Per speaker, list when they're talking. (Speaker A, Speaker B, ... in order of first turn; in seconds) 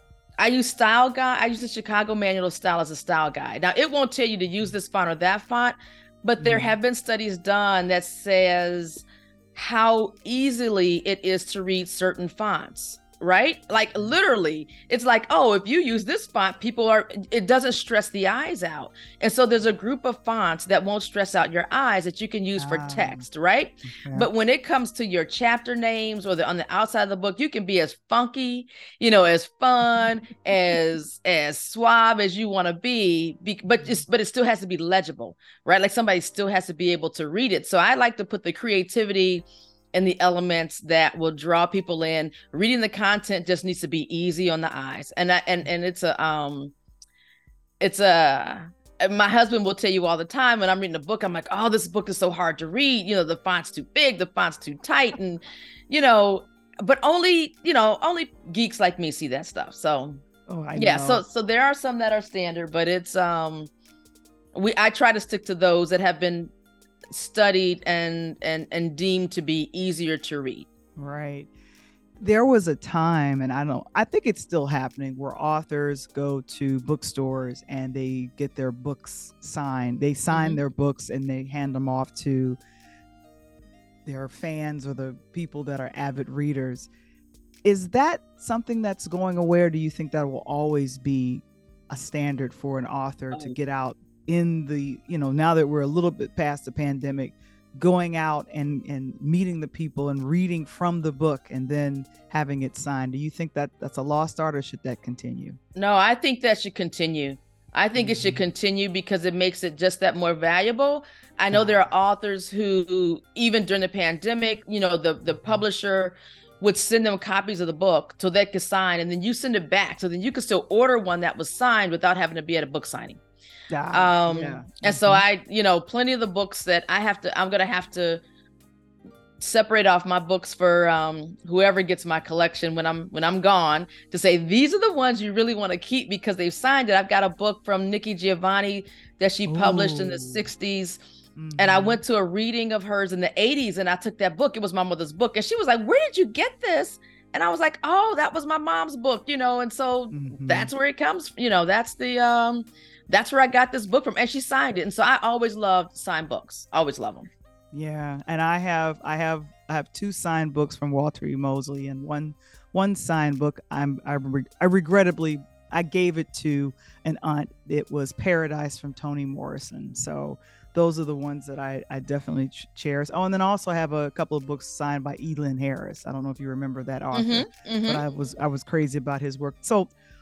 Speaker A: 0.4-46.7, 47.8-60.2, 60.8-63.7, 64.5-66.5, 67.1-70.7, 80.3-80.6, 93.3-93.6, 105.8-123.2, 123.9-128.2, 129.4-141.0, 141.6-157.3, 177.1-178.0
Speaker B: 6.4-6.7, 22.6-23.2, 23.9-24.3, 33.7-34.0, 60.5-61.2, 71.0-71.5, 72.2-82.6, 84.1-86.9, 87.6-105.6, 108.0-108.4, 111.5-111.9, 115.3-115.6, 123.7-125.2, 139.5-140.5, 141.4-142.0, 150.1-150.7, 157.7-179.9